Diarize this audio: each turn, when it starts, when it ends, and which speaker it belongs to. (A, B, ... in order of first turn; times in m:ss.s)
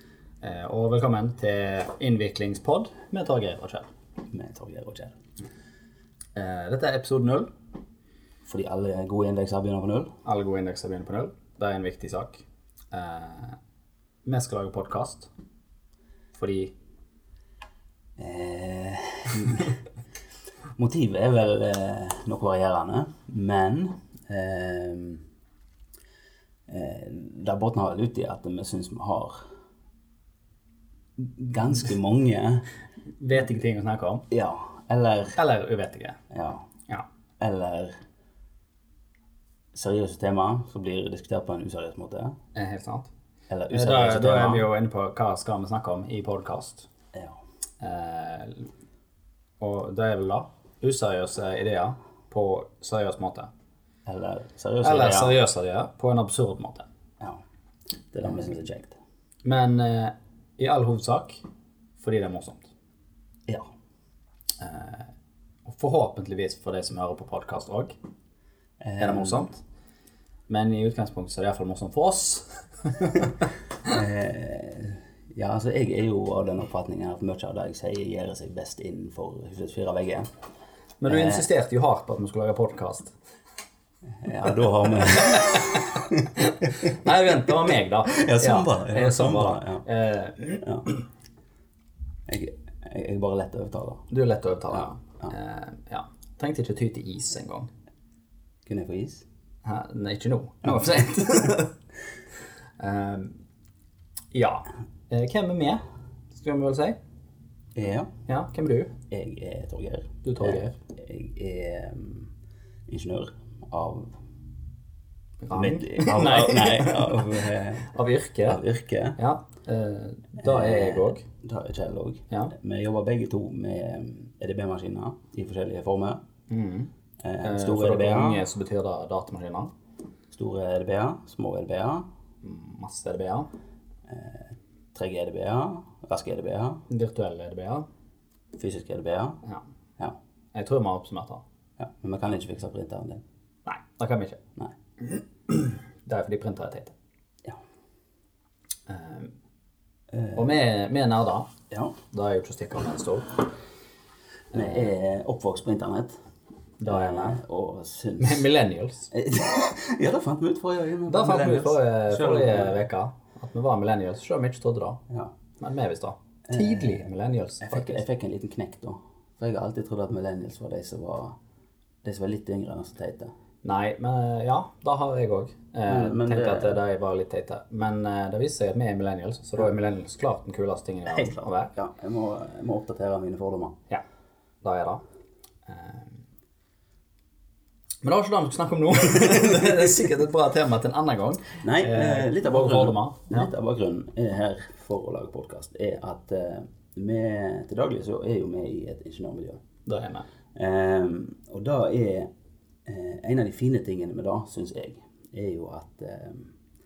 0:00.4-0:03.9 A
0:04.3-0:05.2 B
0:06.4-0:07.5 A
0:08.4-0:10.1 B
0:10.2-0:13.6 A
0:14.2-0:15.3 A
0:16.3-0:16.7 A
0:18.2-0:19.8 B
0:20.8-0:25.2 B
0:26.7-0:29.4 B
0:31.2-0:32.7 B
0:33.2-0:34.2 A
0:34.3-0:35.4 B
0:35.3-0:36.2 A
0:36.3-0:36.7 B
0:37.4-0:37.9 B
0:39.7-0:42.4 B
0:42.5-0:43.1 A
0:43.5-0:44.7 B
0:43.7-0:46.9 A
0:47.8-0:48.7 A
0:49.6-0:53.5 A
0:54.0-0:55.4 B
0:54.8-0:56.8 A
0:58.1-0:59.0 B
0:59.4-1:01.4 A
1:02.0-1:02.7 A
1:04.6-1:05.1 A
1:05.6-1:07.9 A
1:08.8-1:09.5 B
1:09.0-1:09.6 A
1:10.5-1:13.4 A
1:13.8-1:20.3 B
1:21.0-1:23.1 A
1:21.0-1:21.5 B
1:24.2-1:26.3 B
1:25.1-1:30.9 A
1:28.1-1:29.9 B
1:30.5-1:30.9 B
1:32.3-1:34.1 B
1:34.1-1:37.7 A
1:34.7-1:35.3 B
1:38.6-1:39.2 B
1:39.6-1:41.7 A
1:41.0-1:41.2 B
1:42.8-1:43.4 A
1:44.3-1:45.8 A
1:46.3-1:47.0 A
1:47.8-1:48.1 B
1:48.3-1:48.9 A
1:49.1-1:52.3 B
1:50.2-1:50.7 A
1:52.9-1:54.1 B
1:55.4-1:58.6 A
1:55.5-1:57.9 B
1:58.4-1:59.2 B
1:59.2-2:01.2 A
2:00.4-2:06.2 B
2:06.5-2:06.9 A
2:07.2-2:08.5 B
2:07.4-2:09.7 A
2:10.3-2:12.0 B
2:12.4-2:13.5 A
2:14.1-2:16.8 B
2:16.9-2:17.8 A
2:18.6-2:19.4 B
2:20.5-2:21.4 A
2:21.8-2:23.2 B
2:23.6-2:24.4 A
2:25.1-2:26.9 A
2:28.9-2:29.3 A
2:30.1-2:30.6 B
2:30.4-2:31.5 A
2:31.7-2:32.0 B
2:32.1-2:33.5 A
2:34.5-2:36.2 B
2:36.8-2:37.4 A
2:36.8-2:38.5 B
2:38.2-2:39.1 A
2:39.1-2:42.8 B
2:41.1-2:45.0 A
2:45.1-2:45.3 B
2:45.6-2:48.0 A
2:46.5-2:47.0 B
2:47.6-2:51.4 B
2:52.0-2:53.3 B
2:53.6-3:01.7 A
2:55.8-2:56.8 B
3:01.1-3:03.8 B
3:04.6-3:05.0 A
3:05.7-3:06.1 A
3:08.0-3:13.5 A
3:11.6-3:19.6 B
3:19.8-3:20.2 A
3:20.5-3:22.3 B
3:22.8-3:26.5 B